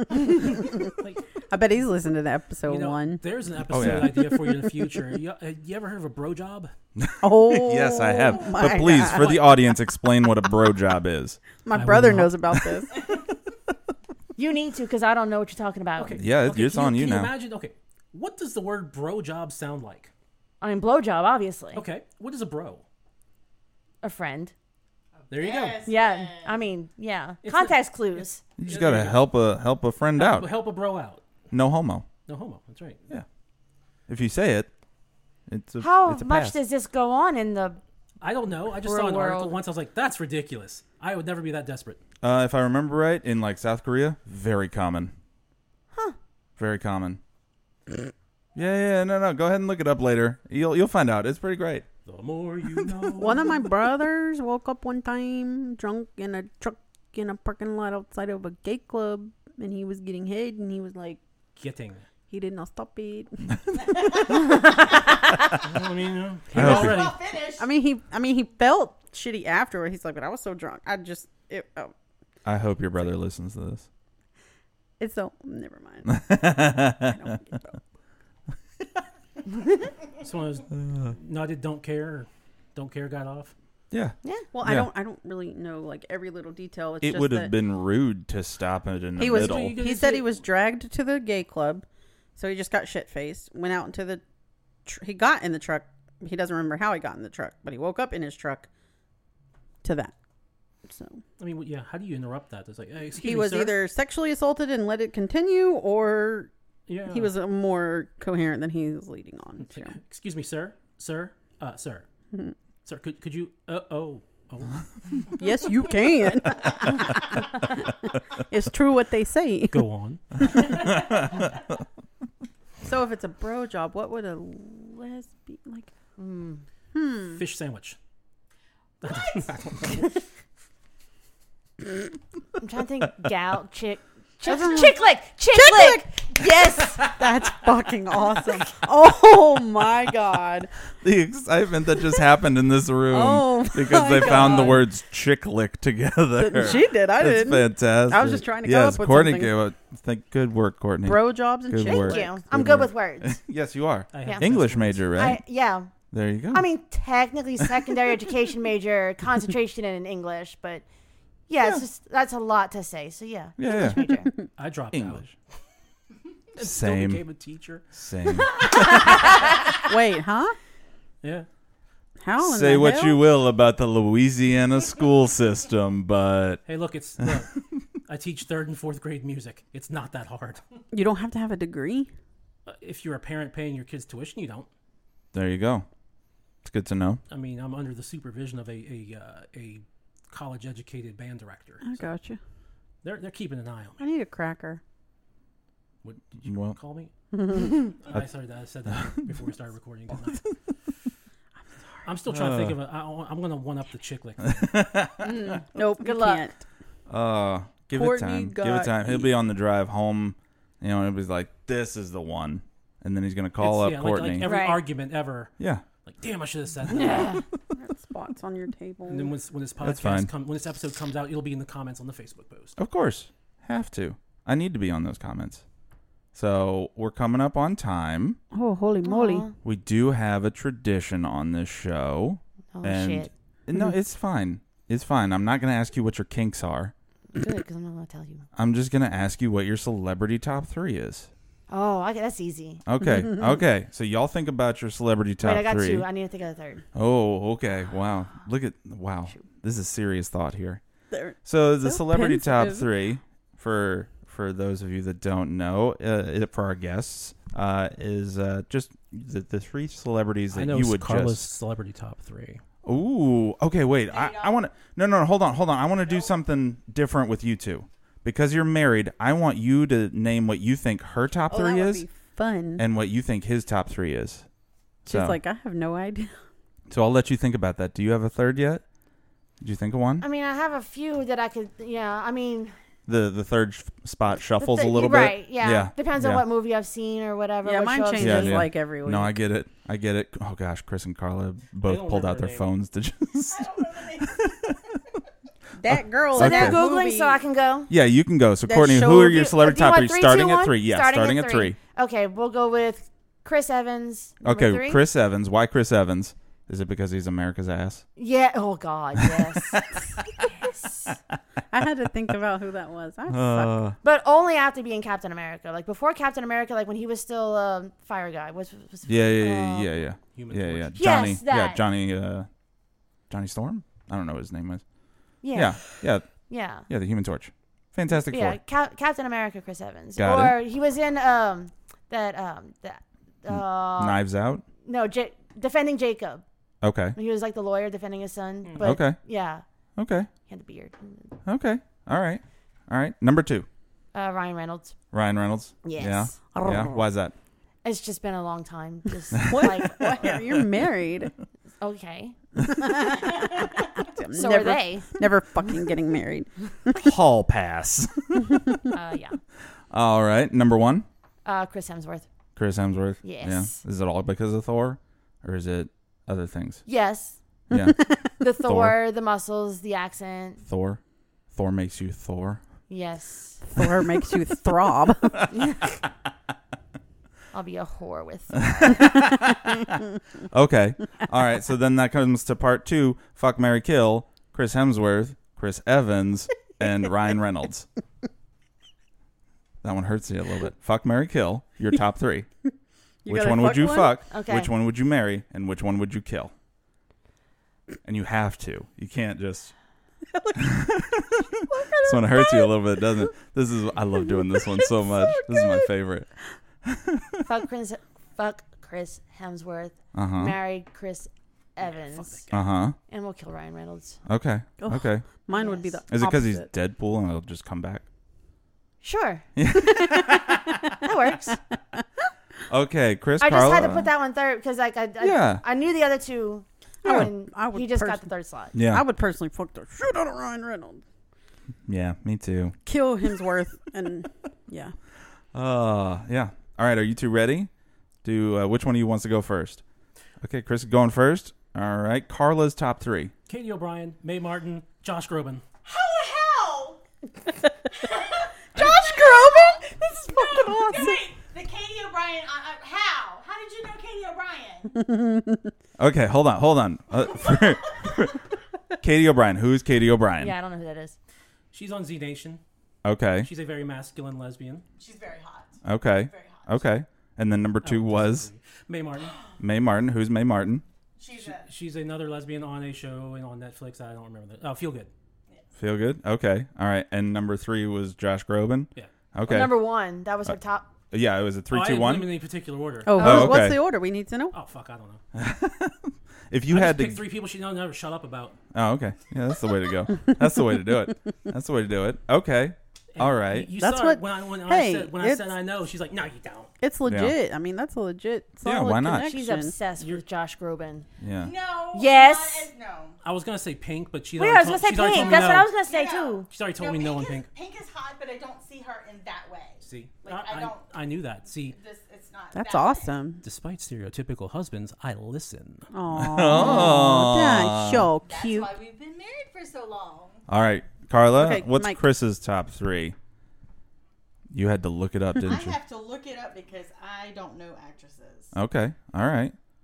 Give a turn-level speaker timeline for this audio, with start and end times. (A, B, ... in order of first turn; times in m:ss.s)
0:00.3-0:00.9 A
0:00.8-0:01.2 B
0:01.5-0:03.2 A
0:02.6-0:06.7 B
0:03.7-0:04.2 C
0:07.0-0:11.4 C
0:07.2-0:09.4 A
0:08.8-0:09.6 B
0:11.6-0:13.0 A
0:11.7-0:12.3 B
0:14.4-0:16.2 D
0:16.0-0:20.1 B
0:16.2-0:17.3 C
0:20.6-0:21.8 D
0:21.7-0:22.8 B
0:24.0-0:24.5 D
0:25.2-0:26.6 E
0:25.3-0:25.9 B
0:25.8-0:28.4 D
0:27.4-0:29.2 B
0:28.6-0:30.5 C
0:30.2-0:31.2 B
0:31.5-0:32.0 C
0:32.3-0:33.0 B
0:34.1-0:34.7 C
0:35.5-0:36.6 C
0:35.8-0:37.8 D
0:38.2-0:42.0 B
0:38.8-0:39.6 D
0:42.2-0:45.1 C
0:46.6-0:47.2 C
0:48.5-0:51.8 C
0:52.0-0:53.6 B
0:52.8-0:53.0 C
0:53.2-1:01.2 A
1:01.6-1:02.0 B
1:02.3-1:03.5 A
1:03.9-1:04.4 E
1:05.6-1:07.2 B
1:06.5-1:07.7 E
1:06.5-1:07.1 C
1:07.6-1:11.9 A
1:12.4-1:13.9 C
1:15.0-1:16.2 A
1:16.0-1:17.3 C
1:17.0-1:17.8 A
1:20.2-1:23.5 B
1:20.8-1:21.1 C
1:23.9-1:24.9 C
1:24.5-1:27.6 A
1:27.0-1:29.8 C
1:29.2-1:34.2 A
1:29.3-1:30.3 B
1:34.8-1:38.7 A
1:39.8-1:40.1 A
1:40.9-1:41.2 A
1:41.4-1:43.8 B
1:43.2-1:46.5 A
1:46.9-1:47.3 B
1:47.1-1:50.0 A
1:49.7-1:52.0 B
1:52.8-1:55.2 B
1:55.4-1:57.2 A
1:58.3-1:59.9 A
1:59.7-2:00.8 B
2:02.8-2:05.9 A
2:06.2-2:06.6 D
2:06.9-2:07.4 A
2:07.3-2:08.0 B
2:09.0-2:09.6 E
2:09.0-2:10.1 B
2:12.6-2:17.2 D
2:14.4-2:15.0 A
2:15.5-2:16.4 A
2:17.0-2:20.7 A
2:21.0-2:35.4 C
2:23.1-2:24.8 A
2:24.1-2:24.8 B
2:26.4-2:29.5 A
2:31.0-2:32.4 A
2:31.8-2:33.4 D
2:34.1-2:35.0 B
2:35.1-2:35.9 D
2:36.1-2:36.6 C
2:36.5-2:40.8 D
2:41.5-2:44.3 D
2:43.6-2:44.1 C
2:44.6-2:45.3 B
2:44.9-2:45.3 C
2:46.5-2:47.8 B
2:46.6-2:47.2 C
2:47.9-2:49.3 C
2:49.8-2:50.6 A
2:51.2-2:51.5 B
2:52.2-2:53.2 A
2:52.4-2:56.6 C
2:56.6-3:00.6 B
3:00.9-3:02.1 A
3:02.6-3:04.7 B
3:05.3-3:05.8 C
3:06.6-3:07.2 C
3:07.3-3:12.0 B
3:11.8-3:12.4 A
3:13.0-3:14.0 B
3:14.0-3:14.8 A
3:16.0-3:20.5 B
3:16.4-3:16.8 C
3:17.3-3:17.8 A
3:22.0-3:24.8 B
3:22.3-3:22.8 C
3:24.4-3:25.2 C
3:25.2-3:26.4 D
3:25.3-3:26.6 A
3:27.1-3:34.5 C
3:27.9-3:29.3 A
3:33.6-3:35.5 B
3:34.4-3:34.8 D
3:35.6-3:35.8 C
3:36.0-3:37.4 B
3:36.9-3:37.4 D
3:37.7-3:39.3 A
3:39.1-3:42.8 B
3:39.8-3:40.3 C
3:42.8-3:45.6 C
3:46.3-3:48.4 C
3:48.5-3:49.4 A
3:49.0-3:49.5 D
3:49.6-3:56.9 C
3:52.7-3:53.3 D
3:57.3-3:58.4 D
3:58.6-4:01.3 C
4:01.7-4:02.8 D
4:02.8-4:06.1 C
4:05.4-4:06.8 D
4:06.9-4:10.8 C
4:11.1-4:12.9 A
4:11.4-4:21.4 C
4:20.5-4:22.6 B
4:22.8-4:32.0 C
4:24.1-4:24.6 E
4:26.0-4:26.3 E
4:31.5-4:32.8 A
4:32.8-4:34.4 C
4:35.0-4:35.4 C
4:35.0-4:36.3 A
4:36.9-4:38.8 C
4:39.6-4:40.2 C
4:40.2-4:42.7 D
4:43.1-4:46.4 C
4:44.6-4:48.7 D
4:47.6-4:49.4 A
4:48.2-4:54.7 C
4:51.8-4:52.7 B
4:53.5-4:54.7 E
4:55.8-4:57.4 A
4:56.3-4:57.9 D
4:56.3-4:56.8 C
4:57.9-5:01.8 C
4:58.6-4:59.0 A
4:58.7-5:05.0 D
5:04.4-5:08.0 C
5:08.2-5:11.2 D
5:09.4-5:09.8 C
5:11.7-5:13.7 A
5:13.3-5:14.0 C
5:14.0-5:19.9 D
5:19.0-5:22.5 C
5:20.3-5:21.3 B
5:21.0-5:21.8 D
5:23.3-5:24.8 C
5:25.4-5:25.8 D
5:25.5-5:26.3 C
5:26.4-5:26.9 D
5:26.9-5:28.6 C
5:28.1-5:34.2 D
5:30.2-5:30.6 C
5:33.5-5:34.6 C
5:34.8-5:36.4 D
5:36.8-5:37.2 C
5:37.2-5:39.6 D
5:38.6-5:38.9 B
5:38.8-5:39.2 C
5:40.0-5:40.3 C
5:40.5-5:41.3 D
5:41.4-5:43.6 C
5:44.1-5:44.9 D
5:45.1-5:47.3 C
5:45.8-5:46.8 D
5:46.5-5:46.8 A
5:47.8-5:50.4 D
5:49.4-5:50.6 C
5:49.4-5:51.3 A
5:51.8-5:52.4 D
5:52.7-5:56.9 A
5:54.3-5:55.1 D
5:56.9-5:58.6 C
5:58.9-5:59.4 D
5:59.9-6:01.0 C
6:01.4-6:02.3 D
6:02.6-6:06.8 C
6:03.2-6:03.8 D
6:06.8-6:07.4 D
6:07.7-6:09.0 C
6:08.4-6:10.6 D
6:10.7-6:11.0 C
6:11.5-6:12.6 C
6:12.9-6:13.6 D
6:13.6-6:15.4 A
6:15.5-6:16.0 D
6:17.5-6:19.5 D
6:18.6-6:19.9 C
6:20.5-6:27.9 C
6:29.8-6:32.5 C
6:33.2-6:34.2 A
6:33.2-6:36.5 C
6:34.3-6:34.7 D
6:38.0-6:39.7 C
6:40.3-6:40.7 A
6:40.6-6:41.5 C
6:41.6-6:42.8 A
6:42.0-6:46.3 C
6:44.5-6:45.9 A
6:46.8-6:47.4 C
6:47.4-6:52.4 D
6:50.1-6:50.6 C
6:51.8-6:52.6 B
6:52.5-6:53.0 C
6:53.1-6:54.2 D
6:54.3-6:55.2 C
6:54.8-6:56.7 A
6:55.5-6:56.0 D
6:56.1-6:58.0 C
6:59.0-6:59.4 D
6:59.6-7:01.0 C
7:00.9-7:01.6 D
7:02.7-7:04.1 C
7:03.4-7:08.8 D
7:05.2-7:05.6 C
7:07.0-7:07.3 C
7:07.0-7:11.0 A
7:08.7-7:09.0 C
7:11.9-7:12.7 C
7:12.8-7:14.9 A
7:15.5-7:17.7 C
7:18.2-7:19.8 C
7:20.4-7:23.3 C
7:23.5-7:25.6 B
7:25.8-7:27.0 E
7:28.0-7:35.0 E
7:28.8-7:31.1 A
7:35.0-7:35.7 A
7:36.0-7:38.4 C
7:39.0-7:40.5 C
7:40.4-7:41.2 D
7:41.7-7:42.6 B
7:43.0-7:43.5 C
7:43.4-7:44.8 B
7:45.0-7:46.8 E
7:45.8-7:48.5 C
7:47.8-7:49.4 B
7:49.2-7:49.6 E
7:49.6-7:50.8 C
7:51.2-7:51.7 E
7:51.4-7:55.1 B
7:55.8-7:59.8 C
7:59.5-8:00.9 D
8:01.1-8:02.3 C
8:01.7-8:03.6 B
8:03.0-8:04.5 A
8:03.2-8:03.8 C
8:04.5-8:05.2 B
8:05.3-8:07.2 C
8:06.7-8:08.6 B
8:08.7-8:13.7 C
8:13.1-8:16.7 B
8:13.8-8:15.5 A
8:16.8-8:19.8 A
8:17.0-8:17.3 C
8:18.6-8:19.3 C
8:19.2-8:21.1 D
8:21.2-8:21.5 C
8:21.4-8:23.2 E
8:21.9-8:22.7 D
8:23.2-8:25.7 B
8:24.4-8:26.5 D
8:25.8-8:30.9 E
8:26.5-8:27.5 B
8:29.8-8:31.8 B
8:31.5-8:33.2 E
8:32.5-8:33.4 A
8:33.4-8:35.9 B
8:35.9-8:38.7 A
8:36.1-8:38.1 C
8:38.2-8:40.4 E
8:40.5-8:43.2 C
8:41.4-8:42.0 A
8:44.5-8:45.8 C
8:45.4-8:48.5 E
8:48.5-8:49.5 C